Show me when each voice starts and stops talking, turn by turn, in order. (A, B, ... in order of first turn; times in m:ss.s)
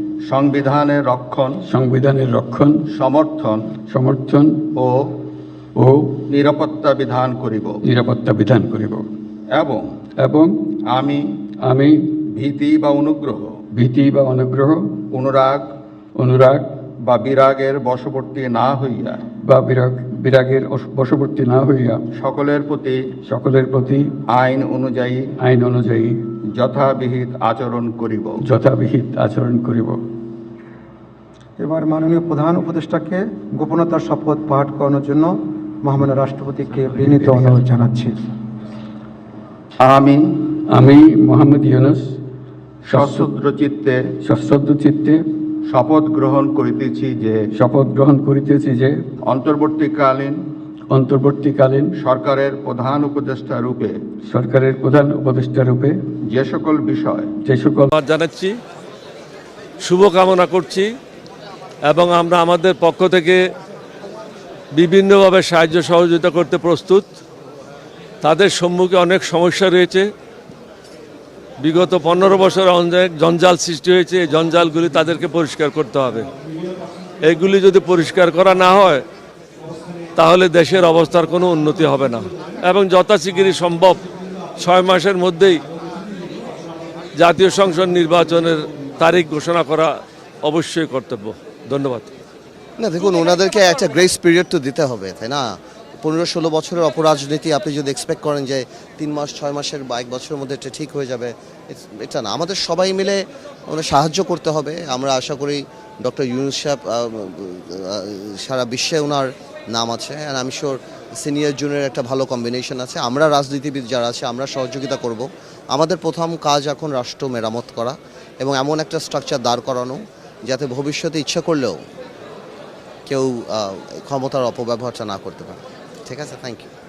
0:00.2-0:01.6 A
0:01.7-0:02.8 B
0:02.9-0:03.7 A
0:03.9-0:04.6 B
0:04.7-0:05.2 A
0:05.8-0:06.2 B
0:06.3-0:07.8 A
0:07.8-0:09.1 B
0:09.5-0:09.9 A
0:10.2-0:10.6 B
0:10.9-0:11.3 A
0:11.6-0:12.2 B
0:12.2-0:13.6 A
0:13.7-0:14.9 B
0:15.1-0:15.7 A
0:16.2-0:16.6 B
0:17.0-0:19.2 A
0:19.4-0:22.0 B
0:22.2-0:23.0 A
0:23.2-0:24.1 B
0:24.3-0:25.3 A
0:25.4-0:26.2 B
0:26.5-0:28.4 A
0:28.4-0:30.0 B
0:31.6-0:38.2 C
0:36.9-0:37.5 B
0:39.8-0:40.5 A
0:40.7-0:42.2 B
0:42.9-0:43.3 B
0:42.9-0:44.0 A
0:44.2-0:45.2 B
0:45.7-0:47.4 A
0:47.5-0:49.0 B
0:49.3-0:50.4 A
0:50.9-0:51.9 B
0:52.0-0:54.0 A
0:54.3-0:56.0 B
0:56.3-0:57.3 A
0:57.4-0:57.9 B
0:57.9-0:58.5 D
0:59.8-1:00.9 D
1:01.9-1:03.4 D
1:04.7-1:07.1 D
1:08.2-1:10.1 D
1:11.6-1:16.3 D
1:17.2-1:19.0 D
1:20.2-1:24.0 D
1:24.6-1:25.6 D
1:27.2-1:32.1 D
1:32.8-2:01.8 E
2:03.1-2:06.7 E